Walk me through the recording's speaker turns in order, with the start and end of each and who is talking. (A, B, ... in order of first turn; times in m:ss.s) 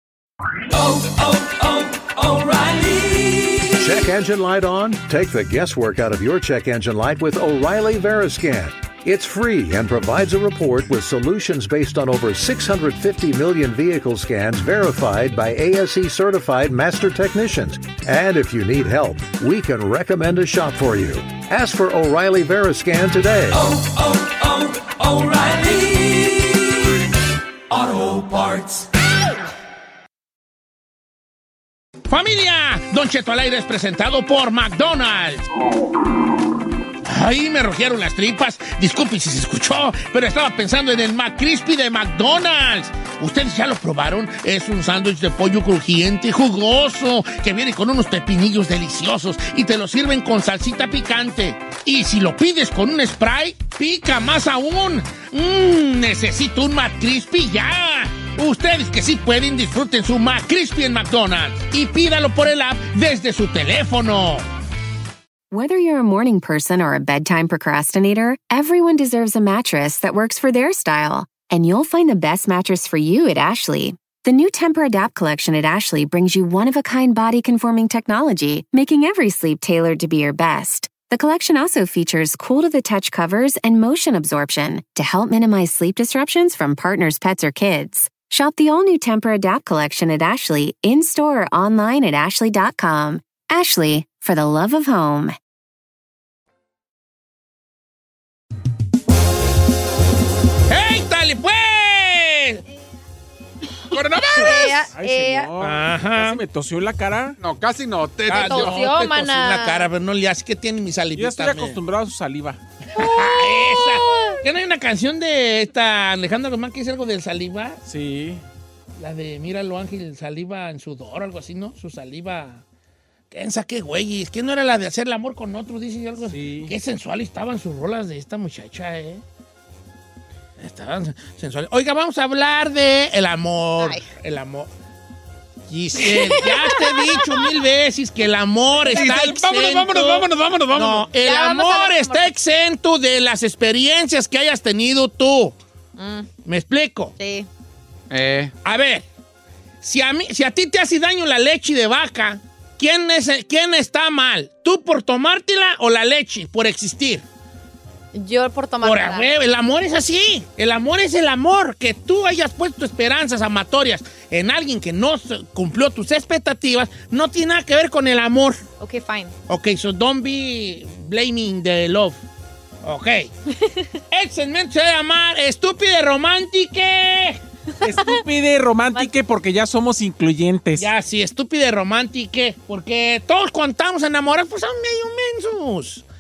0:00.8-0:03.6 A
0:03.8-0:23.7 B
0:23.7-0:26.5 A
0:27.7-0:28.8 A
0:32.1-0:35.4 C
0:37.0-1:04.5 C
1:05.5-1:35.4 D
1:40.7-1:42.6 C
1:43.9-1:44.4 E
1:44.3-1:45.5 F
1:44.4-1:47.4 G
1:45.6-1:46.4 C
1:47.4-1:48.6 E
1:48.3-1:51.8 C
1:48.3-1:49.9 F
1:51.2-1:52.6 G
1:52.9-1:57.8 C
1:53.0-1:54.4 F
1:57.8-1:58.4 G
1:59.0-2:02.6 C
2:03.3-2:09.2 C
2:06.3-2:06.7 G
2:10.6-2:14.7 C
2:13.8-2:14.0 F
2:15.7-2:25.6 C
2:16.1-2:17.5 F
2:18.9-2:21.0 E
2:21.2-2:22.3 F
2:26.0-2:26.3 F
2:26.4-2:27.2 C
2:27.2-2:27.5 F
2:28.1-2:28.5 E
2:28.6-2:29.0 C
2:29.8-2:37.2 C
2:38.1-2:39.3 F
2:38.8-2:48.6 C
2:48.8-2:49.3 F
2:49.5-2:52.2 C
2:52.8-2:53.3 C
2:54.1-2:57.4 C
2:57.8-3:00.9 G
3:00.8-3:06.0 C